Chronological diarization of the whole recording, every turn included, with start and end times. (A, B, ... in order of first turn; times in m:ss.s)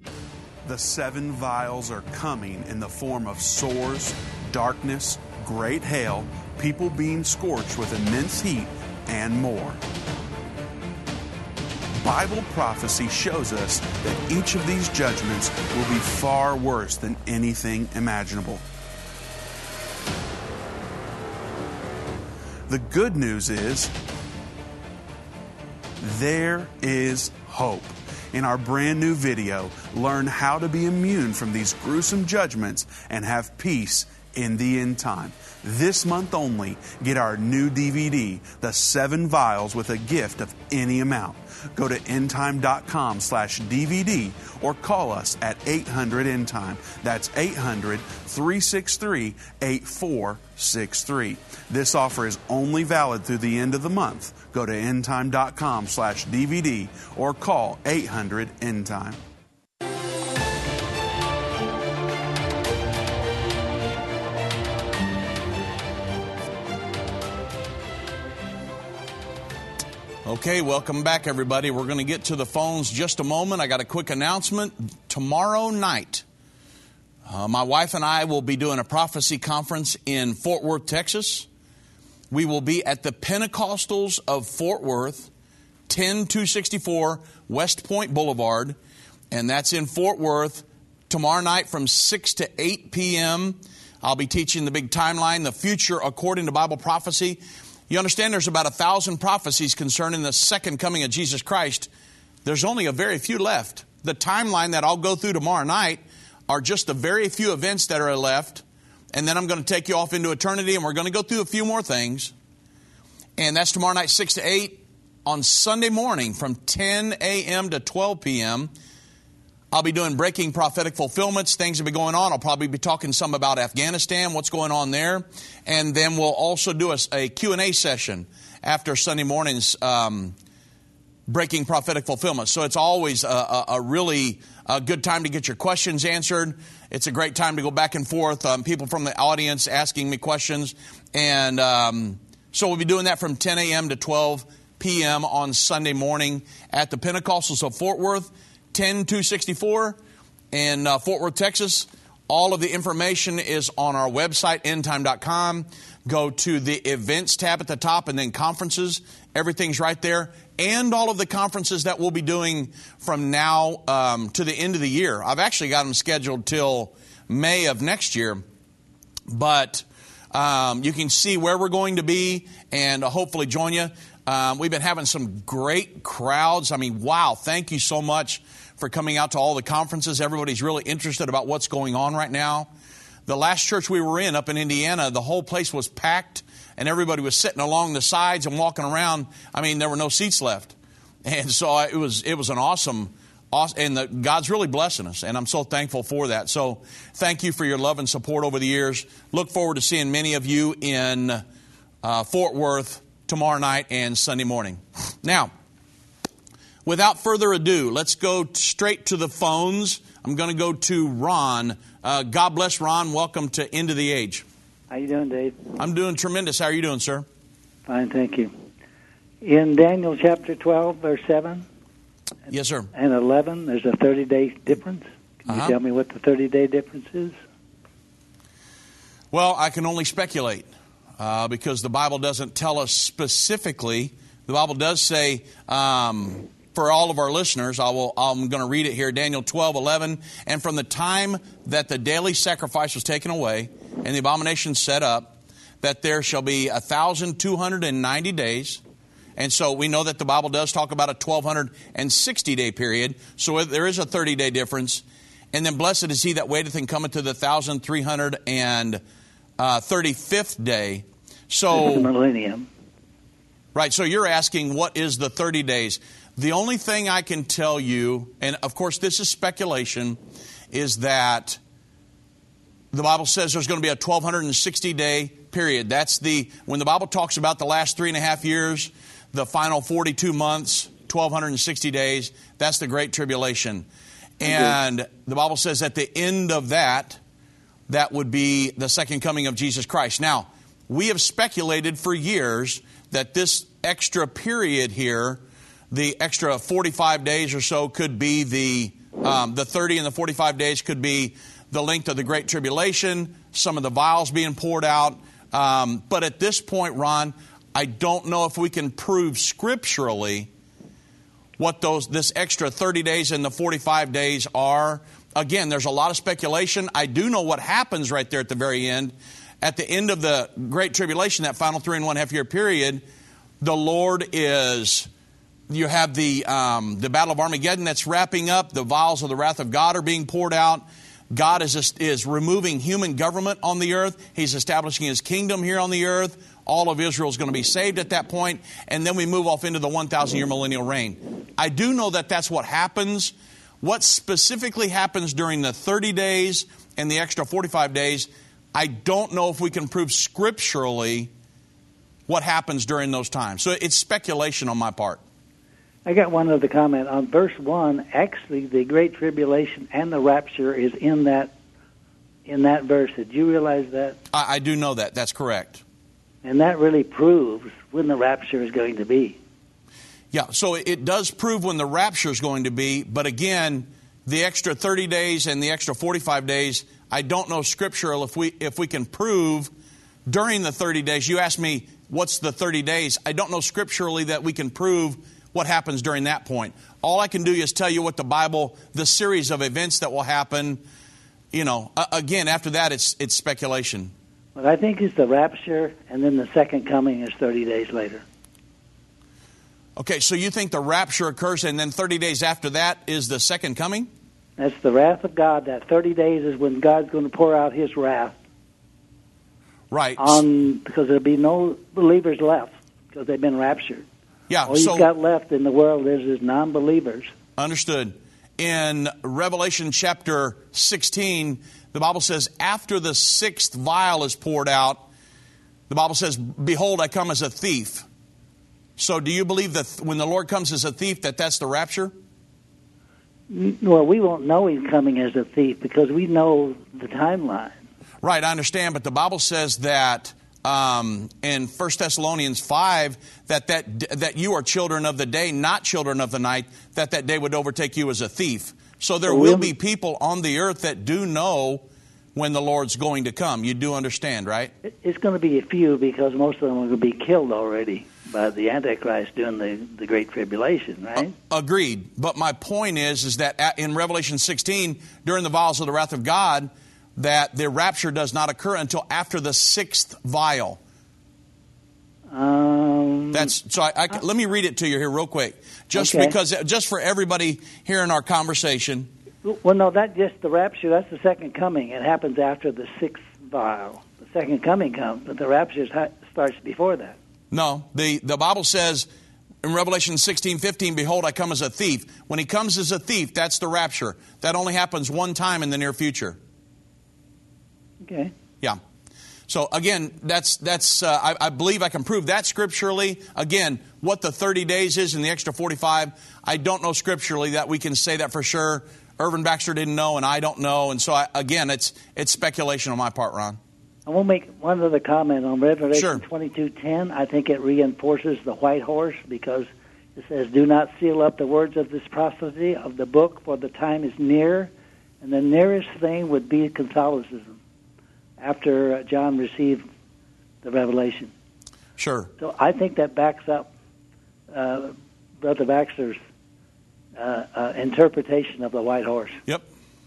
0:00.6-0:09.8 A
0:12.0-0:18.6 A
0:22.7-0:23.9 A
0:26.0-0:59.2 A
1:10.2-1:16.2 B
1:17.3-1:21.5 B
1:22.3-1:25.3 B
1:25.9-1:28.8 B
1:29.3-1:41.9 B
1:42.4-1:52.3 B
1:53.4-1:58.7 B
1:59.7-2:10.4 B
2:11.3-2:30.0 B
2:30.5-2:48.4 B
2:49.3-3:02.7 B
3:03.3-3:21.4 B
3:22.0-3:25.5 B
3:26.8-3:34.4 B
3:34.9-3:35.8 C
3:35.8-3:37.2 B
3:37.8-3:38.5 C
3:39.4-3:41.6 C
3:42.5-3:42.9 B
3:42.9-3:47.4 C
3:45.5-3:45.8 B
3:49.3-4:08.8 B
4:09.4-4:19.0 B
4:19.6-4:22.1 B
4:21.7-4:22.7 C
4:23.7-4:30.2 B
4:30.7-4:31.6 B
4:32.9-4:43.8 B
4:44.4-4:47.2 B
4:47.9-5:10.5 B
5:11.6-5:23.0 B
5:23.6-5:25.1 B
5:25.7-5:51.3 B
5:52.3-5:55.2 B
5:56.0-6:01.5 C
6:02.4-6:04.2 C
6:04.3-6:05.8 B
6:06.4-6:09.4 C
6:10.3-6:19.7 B
6:20.3-6:30.8 B
6:31.5-6:34.1 B
6:34.6-6:38.2 C
6:40.0-6:44.1 B
6:44.6-6:48.4 C
6:49.9-6:50.4 B
6:50.2-6:54.0 C
6:54.5-6:55.1 B
6:54.6-6:57.3 C
6:57.6-7:05.0 B
7:05.9-7:08.0 B
7:09.0-7:12.1 B
7:13.5-7:17.8 C
7:18.2-7:31.8 B
7:29.3-7:29.7 C
7:32.3-7:34.7 B
7:34.8-7:41.3 C
7:41.5-7:50.8 B
7:52.3-7:53.5 C
7:53.3-7:59.1 B
7:55.9-7:56.3 C
7:59.4-8:07.2 C
8:07.5-8:09.1 B
8:09.6-8:16.4 B
8:18.0-8:18.3 C
8:19.5-8:33.6 B
8:34.1-8:47.6 C
8:35.9-8:36.2 B
8:48.4-8:49.8 C
8:50.6-8:51.3 C
8:52.0-8:52.3 B
8:52.4-8:53.7 C
8:54.5-8:56.2 C
8:57.2-8:59.4 C